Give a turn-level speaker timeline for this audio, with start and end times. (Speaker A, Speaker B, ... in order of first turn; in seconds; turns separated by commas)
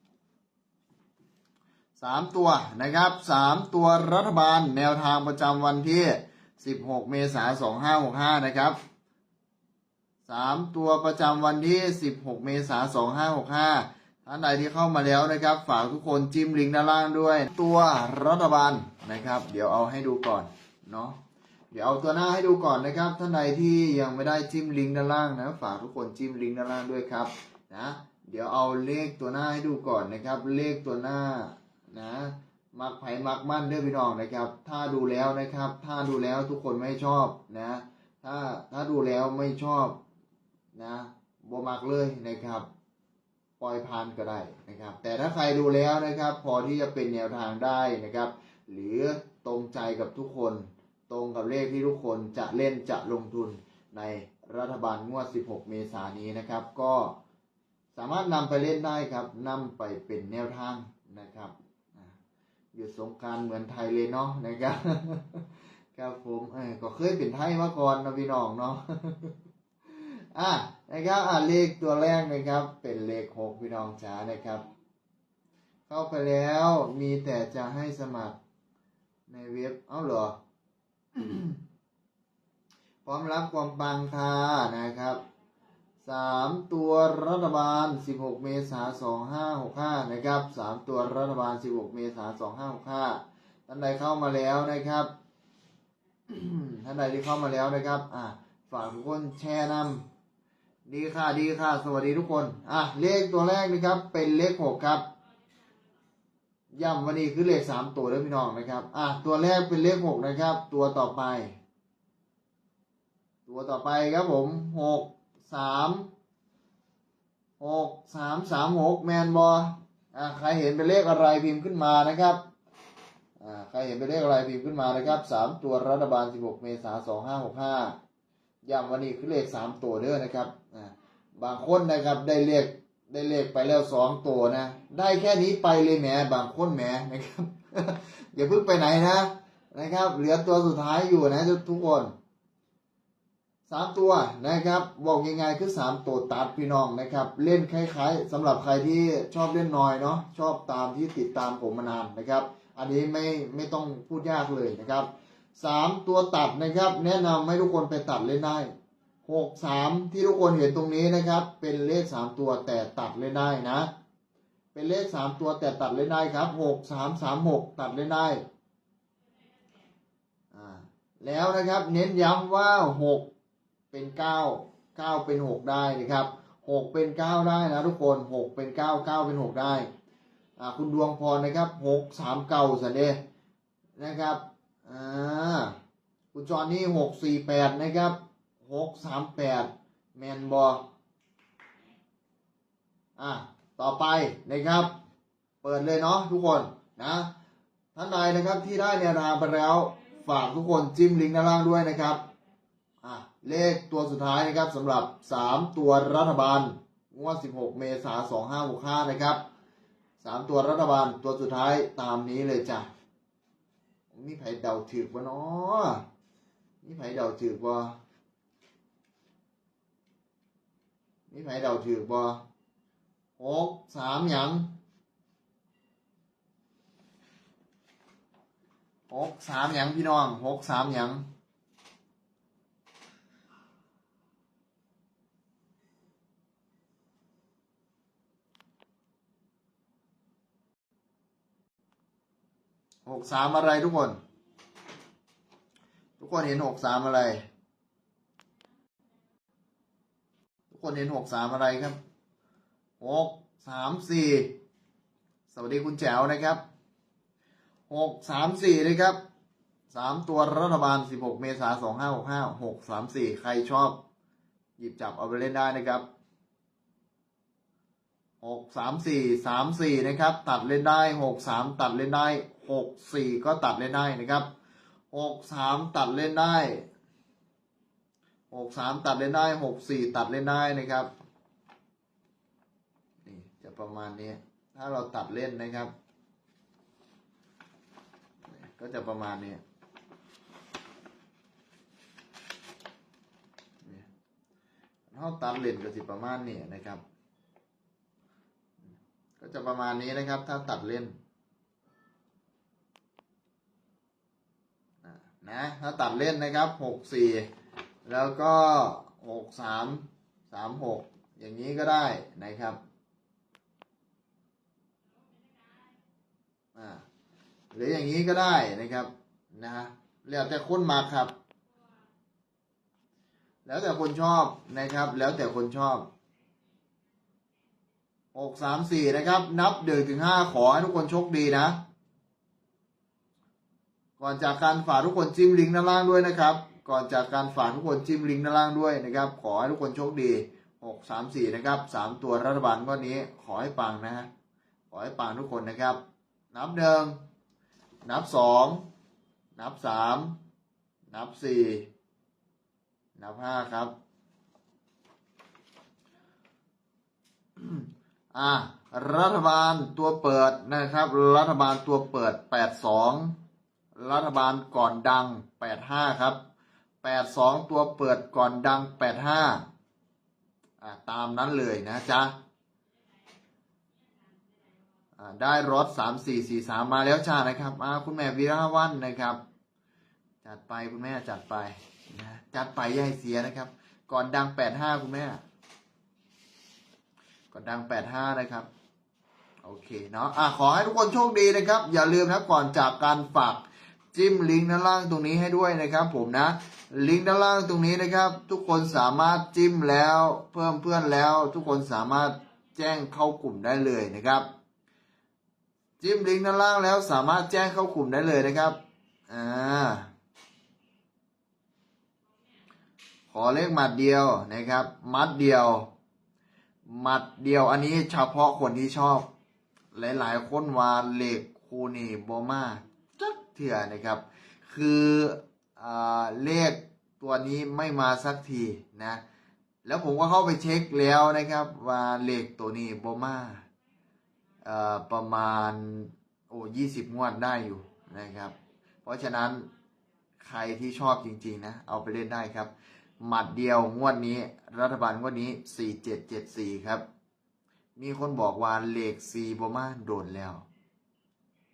Speaker A: 2.0-8.8, Speaker A: 10.2-21.2, Speaker A: 21.7-40.0, Speaker A: 40.7-42.7, Speaker A: 43.6-57.1, Speaker A: 57.9-62.1, Speaker A: 62.7-65.4, Speaker A: 65.9-69.3, Speaker A: 69.9-74.6, Speaker A: 75.9-78.4, Speaker A: 79.3-80.3, Speaker A: 81.2-81.6, Speaker A: 83.0-85.2, Speaker A: 86.0-95.1, Speaker A: 96.3-100.0, Speaker A: 100.9-105.0, Speaker A: 106.7-111.5, Speaker A: 113.5-116.1, Speaker A: 117.6-122.4, Speaker A: 123.4-128.0, Speaker A: 128.6-142.1, Speaker A: 143.7-158.7, Speaker A: 159.2-163.9, Speaker A: 164.7-168.4, Speaker A: 170.5-173.3, Speaker A: 173.9-179.9, Speaker A: 180.6-183.2, Speaker A: 184.0-185.8, Speaker A: 186.3-190.8, Speaker A: 193.2-194.9, Speaker A: 195.6-197.3, Speaker A: 197.9-202.2, Speaker A: 203.0-209.4, Speaker A: 210.2-212.9, Speaker A: 214.1-216.0, Speaker A: 216.8-218.0, Speaker A: 221.3-222.4, Speaker A: 223.4-224.7, Speaker A: 229.1-231.2, Speaker A: 243.1-244.2, Speaker A: 246.2-247.4, Speaker A: 250.7-252.0, Speaker A: 253.0-254.6, Speaker A: 255.5-256.6, Speaker A: 257.9-259.2, Speaker A: 259.9-264.0, Speaker A: 264.8-266.0, Speaker A: 268.4-274.5, Speaker A: 275.1-276.9, Speaker A: 278.5-281.1, Speaker A: 283.2-285.9, Speaker A: 288.5-289.6, Speaker A: 295.1-297.0, Speaker A: 299.4-301.1, Speaker A: 305.0-307.5, Speaker A: 308.1-312.8, Speaker A: 316.7-317.0, Speaker A: 317.7-321.3, Speaker A: 323.6-326.1, Speaker A: 328.3-331.8, Speaker A: 334.2-344.3, Speaker A: 344.9-346.0, Speaker A: 346.5-347.1, Speaker A: 348.0-348.8, Speaker A: 349.6-350.4, Speaker A: 351.1-351.9, Speaker A: 353.1-353.9, Speaker A: 357.6-363.4, Speaker A: 363.9-366.4, Speaker A: 367.0-369.6, Speaker A: 370.8-372.4, Speaker A: 375.2-379.4, Speaker A: 380.4-385.4, Speaker A: 387.5-388.7, Speaker A: 389.6-404.5, Speaker A: 406.0-408.8, Speaker A: 409.3-410.1, Speaker A: 413.3-415.9, Speaker A: 416.9-419.3, Speaker A: 419.9-429.2, Speaker A: 429.8-433.6, Speaker A: 434.6-438.5, Speaker A: 439.0-439.7, Speaker A: 440.4-447.0, Speaker A: 448.0-450.6